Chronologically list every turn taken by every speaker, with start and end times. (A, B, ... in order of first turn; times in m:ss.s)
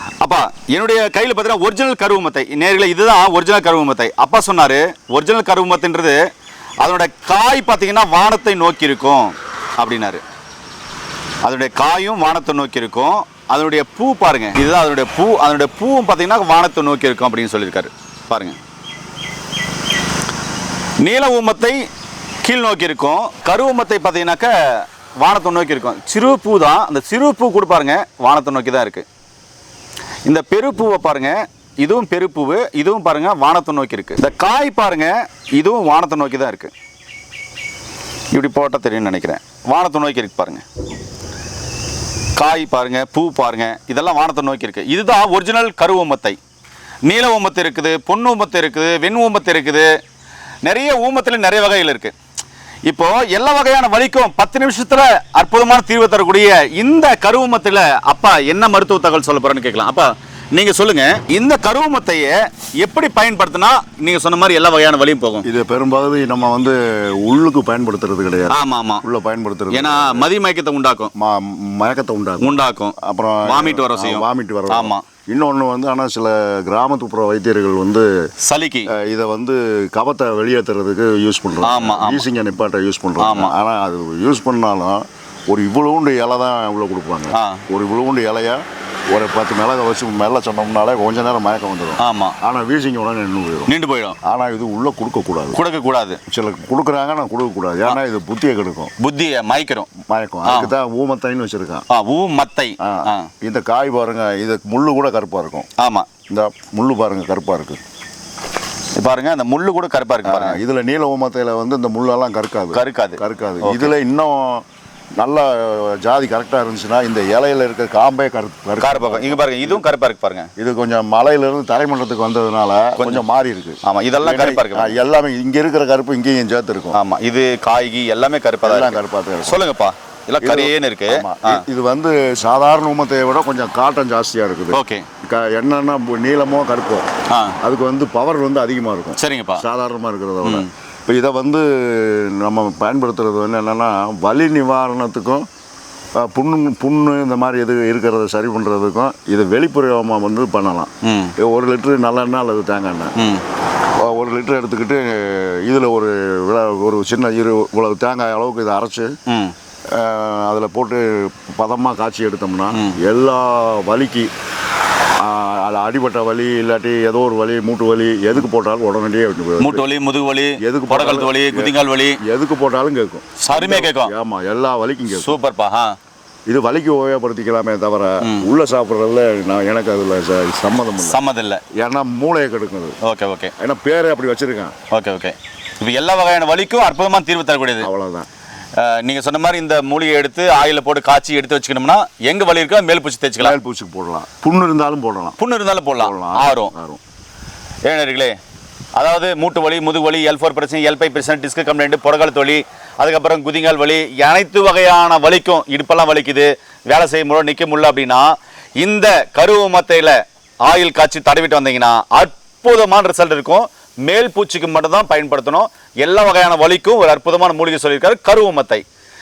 0:00.2-0:06.2 A
0:06.8-0:10.2 A
0:11.4-0:18.6 A
0:21.0-0:21.8 A
0:22.4-0:29.0 A
0:30.2-0:36.7 A
0:38.3-0:40.6 A
0:42.4-0:46.4 A
0:47.1-0:49.9 A
0:50.6-0:52.1 A
0:52.9-1:05.5 A
1:05.4-1:10.3 B
1:08.5-1:09.0 A
1:09.7-1:11.1 A
1:11.2-1:18.1 B
1:12.4-1:15.0 A
1:18.4-1:18.9 A
1:18.9-1:33.7 B
1:21.6-1:22.2 A
1:23.2-1:23.5 A
1:27.3-1:27.6 A
1:32.0-1:32.4 A
1:33.7-1:34.2 A
1:34.2-1:35.6 B
1:35.5-1:36.2 A
1:36.3-1:38.9 B
1:39.0-1:39.9 A
1:40.0-1:41.8 B
1:40.4-1:40.7 A
1:41.9-1:43.3 A
1:42.8-1:45.7 B
1:45.8-1:46.1 A
1:46.3-1:47.8 B
1:49.0-1:50.6 A
1:50.2-1:54.6 B
1:52.7-1:53.9 A
1:55.2-1:59.8 B
1:58.8-2:00.5 A
2:00.6-2:07.0 B
2:03.0-2:03.2 A
2:03.8-2:05.0 A
2:06.9-2:11.6 A
2:08.6-2:09.6 B
2:10.4-2:17.0 B
2:14.7-2:15.0 A
2:17.3-2:17.6 A
2:17.6-2:25.4 B
2:19.2-2:19.6 A
2:20.4-2:20.7 A
2:26.2-2:33.1 B
2:31.0-2:31.3 A
2:33.2-2:33.4 A
2:34.0-2:39.1 B
2:39.3-2:39.5 A
2:39.9-2:44.3 B
2:45.2-2:49.9 B
2:49.6-2:52.2 A
2:50.6-2:55.4 B
2:53.4-2:54.1 A
2:55.1-2:55.9 A
2:56.5-3:01.2 B
2:58.2-2:58.5 A
3:01.0-3:01.6 A
3:01.7-3:03.0 B
3:03.0-3:03.5 A
3:03.6-3:04.7 B
3:04.9-3:07.9 A
3:07.8-3:08.3 B
3:08.8-3:13.6 A
3:13.4-3:15.4 B
3:15.4-3:16.7 A
3:16.0-3:17.0 B
3:17.8-3:18.4 A
3:19.0-3:38.8 A